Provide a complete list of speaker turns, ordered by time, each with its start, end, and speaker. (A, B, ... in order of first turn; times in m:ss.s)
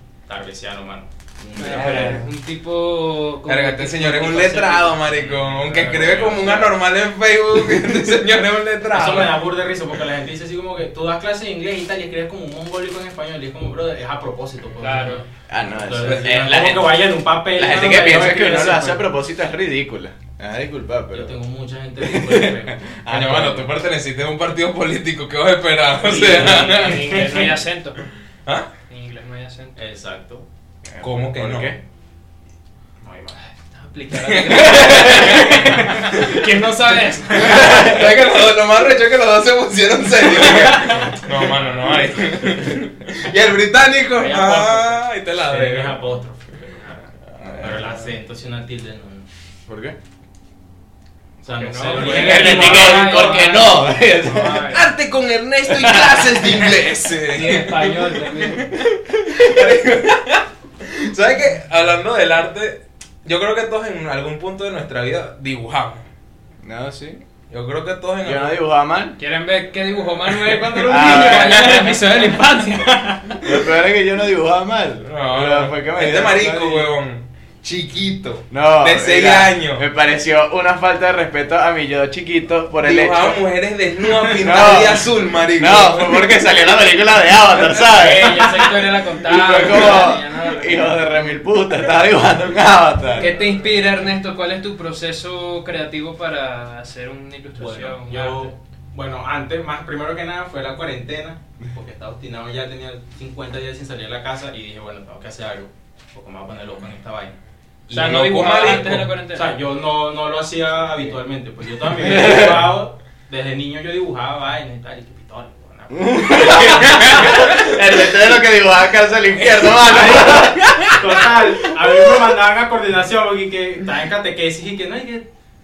0:00.3-0:01.7 A
0:01.4-0:02.2 B
0:01.6-0:06.6 C
0:01.6-0:02.3 D
0:03.5-0:09.4 D
0:05.9-0:06.6 A
0:06.2-0:06.7 B
0:08.9-0:19.0 A
0:14.8-0:15.2 C
0:15.5-0:17.0 B
0:16.0-0:16.3 D
0:17.5-0:21.3 B
0:21.1-0:22.9 A
0:22.0-0:23.7 B
0:23.1-0:27.2 D
0:26.0-0:27.6 A
0:26.2-0:28.1 C
0:28.9-0:29.8 C
0:29.8-0:30.4 A
0:30.9-0:31.8 B
0:31.0-0:31.7 D
0:33.0-0:33.5 A
0:33.7-0:38.1 C
0:34.1-0:36.4 D
0:34.6-0:35.7 B
0:35.5-0:36.2 A
0:37.4-0:45.9 D
0:37.4-0:38.1 B
0:40.4-0:41.0 C
0:44.2-0:45.0 C
0:45.5-0:49.3 A
0:47.3-0:48.0 D
0:47.4-0:47.9 B
0:49.7-0:50.0 B
0:51.4-0:53.6 A
0:51.5-0:54.9 C
0:51.9-0:54.7 B
0:54.7-1:06.0 D
0:55.7-0:56.7 B
0:57.3-0:58.7 C
1:06.6-1:07.2 B
1:07.5-1:08.6 D
1:08.2-1:09.2 B
1:09.2-1:13.5 C
1:10.4-1:12.0 D
1:10.8-1:12.0 B
1:13.4-1:16.9 B
1:15.0-1:19.8 D
1:18.5-1:23.4 B
1:22.8-1:26.3 D
1:24.4-1:28.4 B
1:27.6-1:31.1 C
1:29.2-1:33.3 B
1:33.2-1:38.5 C
1:37.6-1:57.7 A
1:47.9-1:49.6 C
1:48.0-1:49.1 D
1:52.0-1:52.7 B
1:55.9-2:00.7 B
1:59.8-2:05.3 A